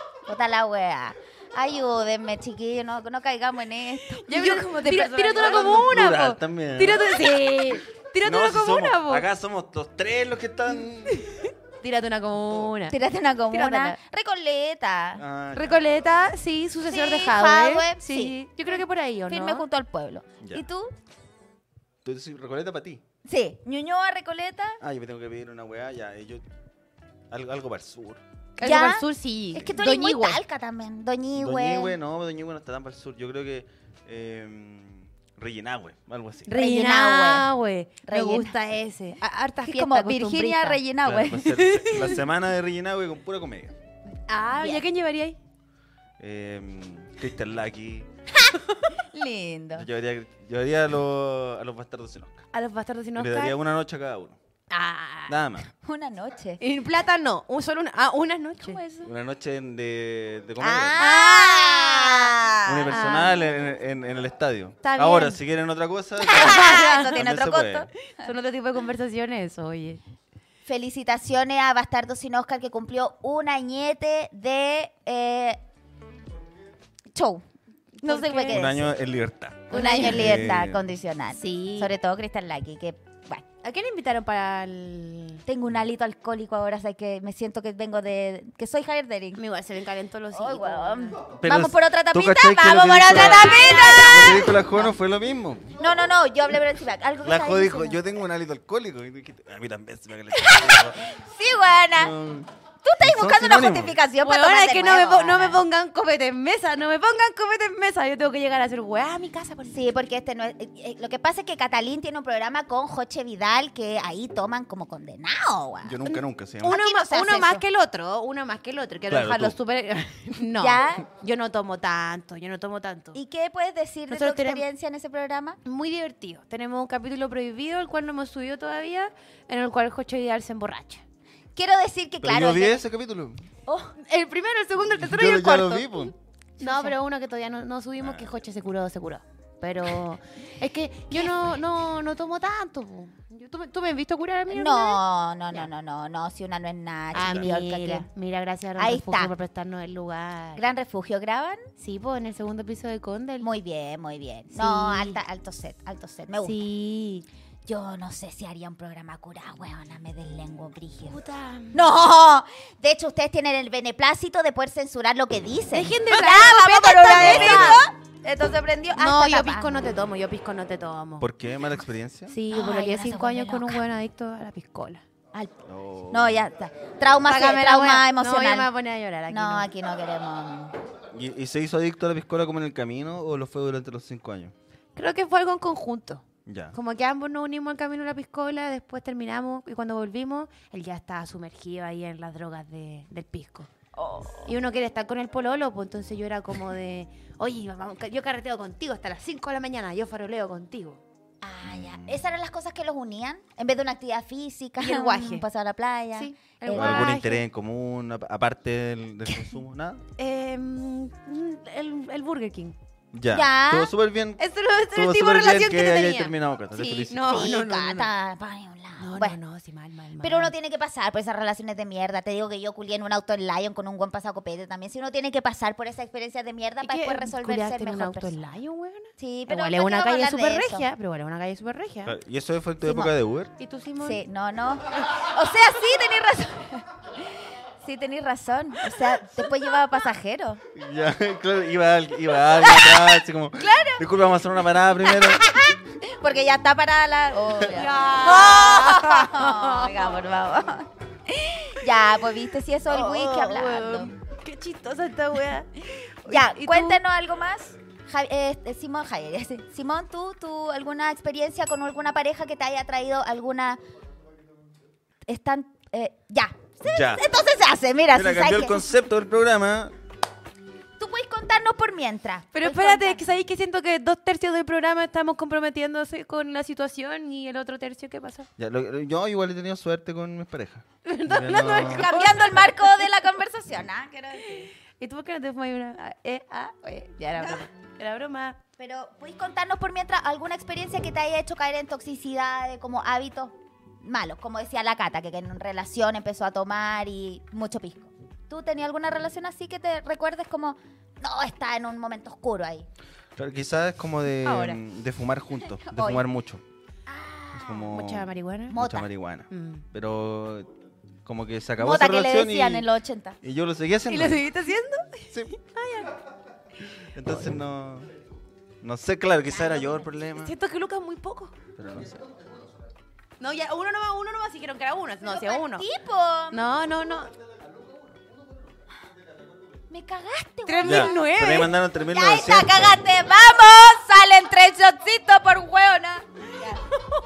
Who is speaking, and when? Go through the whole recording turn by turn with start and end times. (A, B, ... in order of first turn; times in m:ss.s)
0:00.3-0:05.7 A
0:04.2-0:09.2 B
0:05.4-0:07.1 C
0:08.2-0:11.2 C
0:11.1-0:13.0 B
0:12.9-0:15.2 A
0:13.5-0:14.0 B
0:15.2-0:15.8 C
0:15.5-0:19.6 B
0:16.9-0:20.9 A
0:22.0-0:23.0 C
0:23.2-0:24.8 A
0:24.8-0:26.4 C
0:27.3-0:28.2 C
0:28.6-0:30.4 B
0:28.6-0:32.0 A
0:31.4-0:36.6 C
0:36.5-0:40.8 B
0:36.6-0:37.5 A
0:38.1-0:38.6 A
0:39.6-0:41.5 A
0:41.0-0:43.7 C
0:41.4-0:42.2 B
0:44.3-0:45.4 B
0:44.6-0:44.8 A
0:46.2-0:48.1 C
0:48.5-0:49.9 A
0:49.8-0:52.4 C
0:52.5-0:53.6 B
0:53.2-0:54.4 C
0:54.7-0:55.4 B
0:55.3-0:55.7 C
0:55.7-0:56.6 A
0:56.6-0:59.1 B
0:59.0-1:01.0 C
1:00.6-1:03.1 A
1:01.0-1:03.4 B
1:02.6-1:07.9 C
1:04.8-1:05.4 B
1:06.2-1:07.2 B
1:06.3-1:07.9 A
1:08.1-1:10.0 B
1:10.7-1:15.6 A
1:17.1-1:17.4 A
1:18.0-1:18.6 B
1:18.0-1:18.9 A
1:18.5-1:20.8 C
1:19.7-1:20.4 B
1:19.7-1:23.4 A
1:21.3-1:21.9 B
1:23.6-1:25.4 B
1:25.5-1:29.4 A
1:29.4-1:31.2 B
1:30.3-1:34.6 A
1:31.4-1:35.8 C
1:33.1-1:34.6 B
1:35.8-1:38.0 A
1:37.2-1:41.0 C
1:40.4-1:42.1 A
1:42.0-1:42.5 C
1:42.8-1:45.6 A
1:43.0-1:44.0 C
1:44.2-1:49.8 B
1:49.7-1:57.6 A
1:55.8-1:56.8 C
1:56.6-2:03.2 B
1:59.1-1:59.6 C
2:00.6-2:01.0 A
2:03.1-2:05.6 A
2:04.1-2:04.6 B
2:05.6-2:11.0 B
2:11.6-2:12.8 A
2:12.2-2:13.4 C
2:13.7-2:13.9 A
2:14.0-2:25.0 B
2:15.0-2:16.1 C
2:16.6-2:17.0 A
2:18.0-2:18.3 C
2:21.1-2:21.5 A
2:24.5-2:28.1 A
2:27.1-2:30.6 B
2:27.2-2:27.5 C
2:28.8-2:29.3 A
2:30.6-2:31.6 A
2:31.8-2:33.5 B
2:33.4-2:36.6 A
2:34.5-2:35.2 B
2:36.4-2:37.3 B
2:37.7-2:41.2 A
2:41.0-2:41.8 B
2:41.7-2:49.7 A
2:45.7-2:47.9 B
2:47.1-2:47.8 C
2:49.0-2:51.3 B
2:51.2-2:52.3 C
2:52.3-2:55.0 B
2:52.5-2:53.8 A
2:55.6-2:56.4 C
2:56.1-2:58.7 A
2:57.3-2:59.7 B
2:59.3-3:00.8 A
3:01.1-3:04.5 C
3:05.0-3:13.7 B
3:06.5-3:06.7 C
3:14.0-3:14.5 A
3:14.5-3:21.0 B
3:21.4-3:27.2 A
3:21.6-3:22.2 C
3:24.8-3:25.5 B
3:26.2-3:27.4 B
3:26.7-3:30.0 C
3:30.2-3:32.8 B
3:33.1-3:37.2 C
3:33.3-3:33.9 A
3:34.4-3:38.1 B
3:37.2-3:39.4 A
3:39.0-3:40.5 B
3:40.2-3:48.3 A
3:46.8-3:52.2 B
3:49.2-3:50.9 A
3:52.1-3:53.5 C
3:52.8-3:53.1 A
3:53.6-3:54.2 B
3:54.0-3:57.3 A
3:57.8-4:00.6 A
4:00.7-4:05.4 C
4:02.6-4:04.0 A
4:05.1-4:14.1 A
4:07.6-4:10.0 B
4:12.9-4:17.0 B
4:16.3-4:23.8 A
4:25.3-4:28.8 A
4:26.9-4:27.2 C
4:28.1-4:29.9 C
4:31.0-4:33.3 A
4:32.5-4:38.5 B
4:38.6-4:42.1 C
4:41.0-4:43.0 B
4:41.6-4:44.7 A
4:44.4-4:48.6 B
4:47.4-4:47.6 A
4:48.8-5:02.9 A
5:03.4-5:06.6 C
5:04.4-5:04.8 B
5:05.9-5:06.2 A
5:07.1-5:07.9 A
5:07.5-5:10.7 C
5:07.9-5:08.8 B
5:08.7-5:09.1 A
5:09.5-5:09.8 B
5:11.3-5:12.9 C
5:11.8-5:13.4 A
5:13.4-5:14.4 C
5:14.1-5:16.2 B
5:17.1-5:18.1 C
5:18.8-5:20.5 C
5:19.5-5:20.1 A
5:20.4-5:21.5 B
5:21.8-5:22.3 C
5:23.4-5:25.9 B
5:25.3-5:26.6 A
5:26.5-5:27.3 B
5:29.9-5:31.2 A
5:30.7-5:31.7 B
5:30.8-5:33.0 C
5:32.1-5:36.9 A